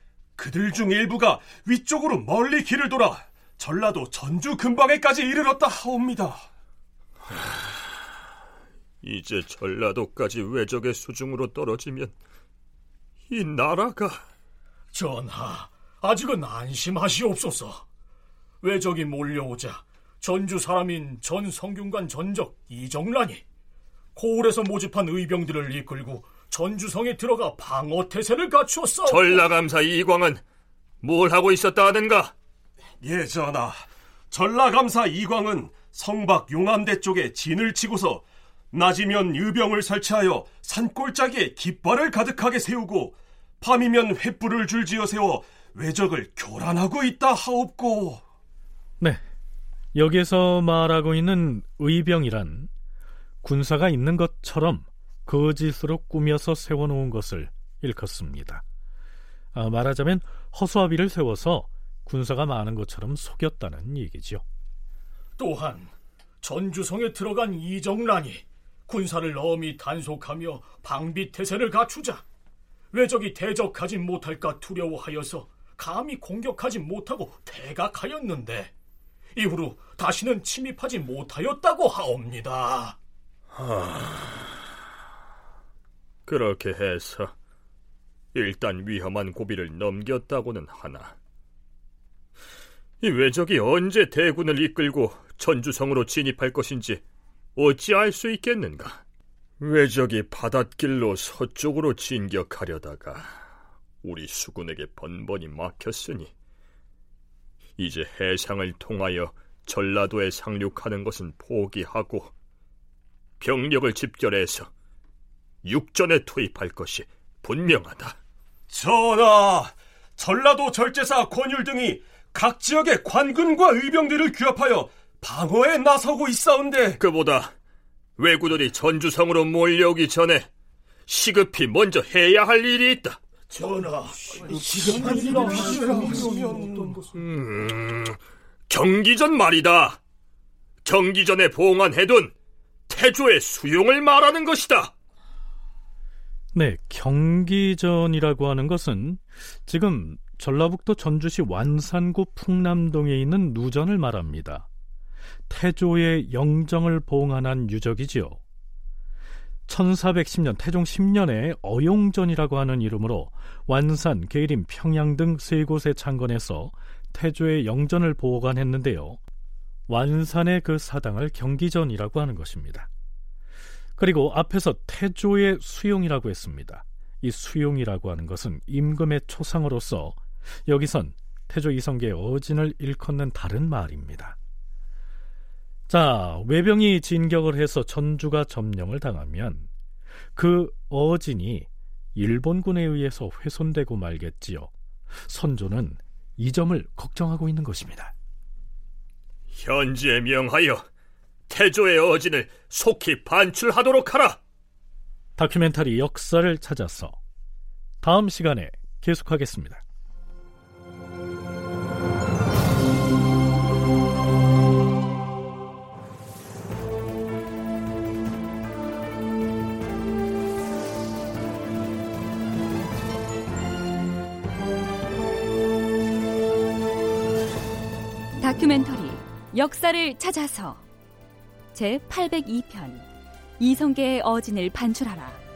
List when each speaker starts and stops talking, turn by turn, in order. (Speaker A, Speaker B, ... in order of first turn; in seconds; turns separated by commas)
Speaker A: 0.4-6.4, Speaker B: 9.0-12.2, Speaker B: 13.3-14.2, Speaker C: 14.9-17.9, Speaker C: 18.6-23.4, Speaker C: 24.2-29.4, Speaker B: 29.1-30.4, Speaker B: 31.0-32.3, Speaker A: 33.0-48.2, Speaker D: 50.0-52.7, Speaker D: 53.4-58.6, Speaker D: 59.5-64.4, Speaker C: 65.4-65.9, Speaker C: 66.4-72.2, Speaker C: 72.9-78.7, Speaker C: 79.4-83.0, Speaker B: 83.5-84.4, Speaker B: 86.3-87.3, Speaker B: 88.3-91.2, Speaker B: 93.0-97.0, Speaker B: 97.6-99.0, Speaker B: 99.6-103.3, Speaker B: 104.0-106.3, Speaker B: 107.8-112.3, Speaker B: 113.4-114.7, Speaker B: 115.7-118.2, Speaker A: 118.7-127.0, Speaker B: 127.0-127.5, Speaker B: 128.2-130.5, Speaker B: 131.1-133.2, Speaker A: 133.6-133.9, Speaker A: 134.5-136.8, Speaker B: 137.2-140.0, Speaker B: 140.8-142.3, Speaker B: 142.9-144.9, Speaker D: 146.5-154.7, Speaker D: 155.5-158.4, Speaker D: 159.7-169.2, Speaker D: 169.9-172.9, Speaker D: 174.0-184.4, Speaker D: 185.9-189.7, Speaker D: 190.3-194.7, Speaker D: 195.2-198.1, Speaker B: 199.5-200.8, Speaker B: 201.5-204.4, Speaker D: 205.4-207.2, Speaker D: 208.0-209.8, Speaker E: 228.4-230.8, Speaker E: 231.7-232.9, Speaker E: 233.6-235.3